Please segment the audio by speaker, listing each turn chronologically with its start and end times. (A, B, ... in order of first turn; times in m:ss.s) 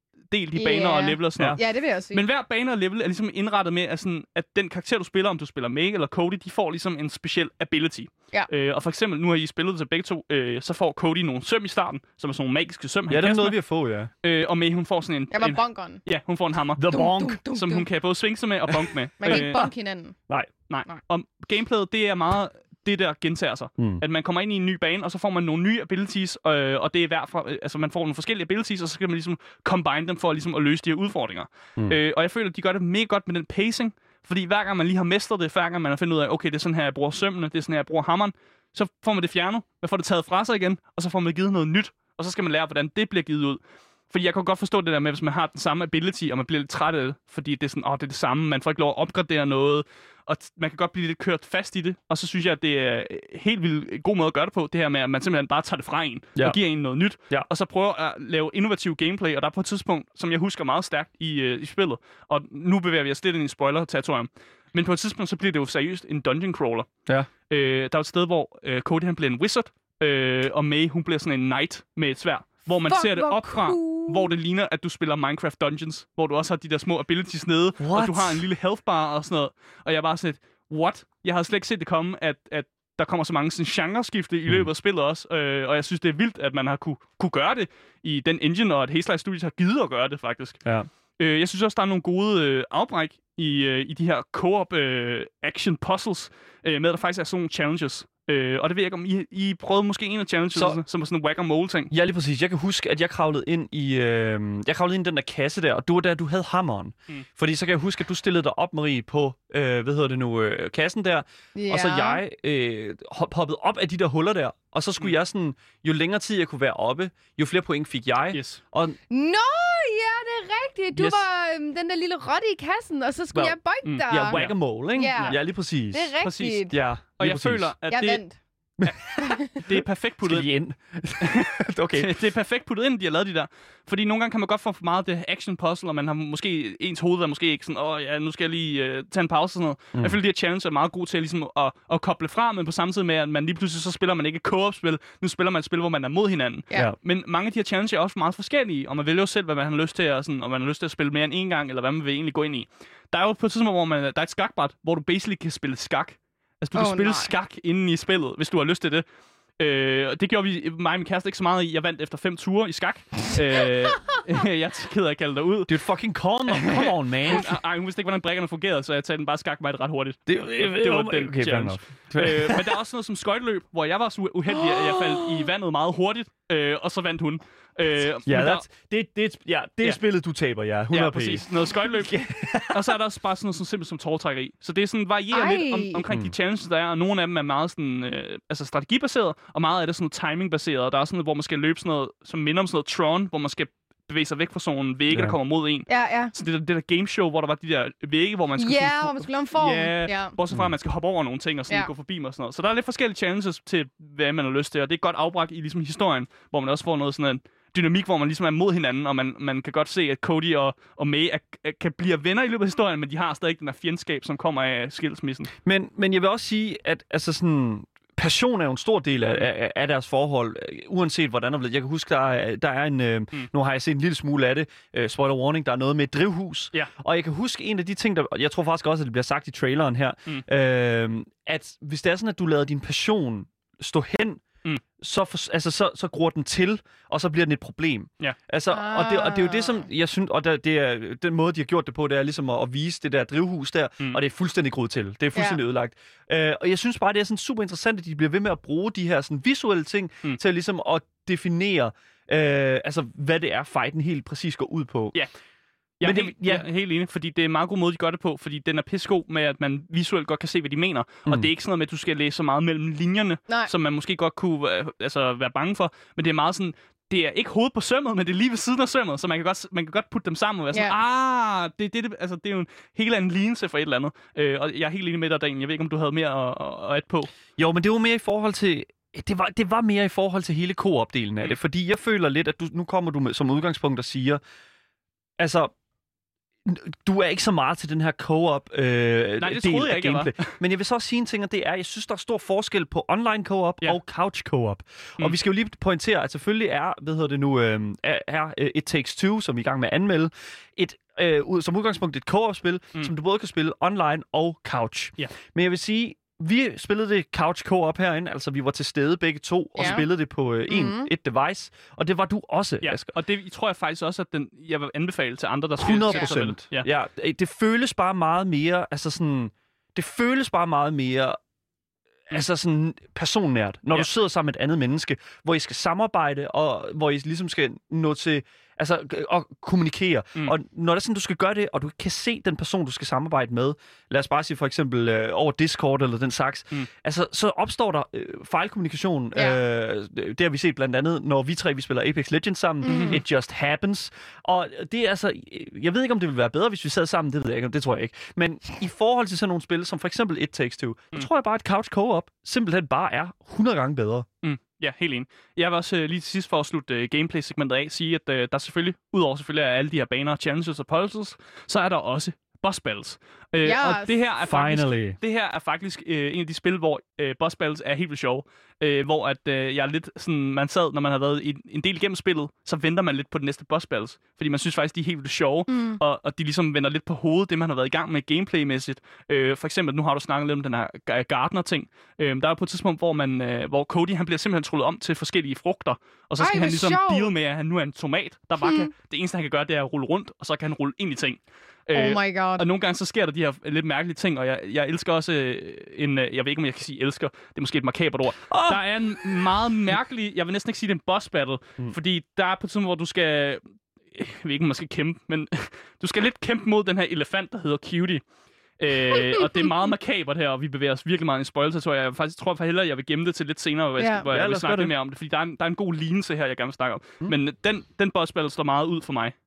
0:00.3-0:13.6 A
0:00.5-0:02.2 B
0:13.1-0:14.1 C
0:14.2-0:16.9 A
0:15.3-0:16.0 B
0:16.8-0:17.4 C
0:16.9-0:17.9 B
0:17.5-0:19.7 A
0:19.2-0:20.2 B
0:19.3-0:19.6 C
0:20.7-1:06.9 A
0:23.8-0:24.0 C
1:07.5-1:30.6 A
1:12.9-1:14.3 B
1:17.8-1:18.4 C
1:31.2-1:41.9 A
1:40.5-1:40.8 C
1:41.9-1:59.0 C
1:51.5-1:52.2 B
1:58.3-1:58.6 A
1:59.1-2:04.4 B
2:00.9-2:01.2 C
2:03.3-2:06.1 C
2:03.8-2:04.6 A
2:04.9-2:06.8 B
2:06.2-2:08.2 A
2:06.7-2:07.7 C
2:07.9-2:08.4 B
2:08.8-2:09.7 C
2:08.8-2:10.5 A
2:09.2-2:09.5 B
2:10.2-2:12.2 C
2:11.2-2:39.0 A
2:36.7-2:37.3 B
2:39.6-2:45.7 A
2:45.7-2:47.5 C
2:46.5-2:58.6 A
2:50.3-2:52.8 C
2:58.2-3:02.9 C
3:00.9-3:35.5 A
3:05.3-3:06.0 B
3:06.1-3:06.3 C
3:15.1-3:15.4 C
3:15.9-3:16.3 B
3:18.6-3:20.3 B
3:35.6-3:54.4 C
3:55.0-4:15.1 C
3:58.7-3:59.8 B
4:05.3-4:05.6 B
4:16.0-4:37.3 A
4:16.0-4:16.6 C
4:37.6-4:44.4 C
4:45.4-4:45.7 C
4:46.6-5:13.1 C
4:49.4-4:50.5 A
5:09.8-5:10.0 B
5:10.7-5:11.1 B
5:12.8-5:16.9 A
5:15.8-5:21.4 C
5:22.3-5:54.3 C
5:42.8-5:43.2 B
5:42.9-5:43.2 A
5:54.4-6:43.6 A
6:03.6-6:04.2 B
6:04.4-6:05.2 C
6:15.7-6:16.0 B
6:26.4-6:27.3 B
6:28.6-6:28.9 B
6:31.9-6:32.6 B
6:38.5-6:38.8 C
6:44.1-6:48.2 A
6:48.8-6:59.3 A
6:54.0-6:54.2 B
6:54.3-6:55.0 C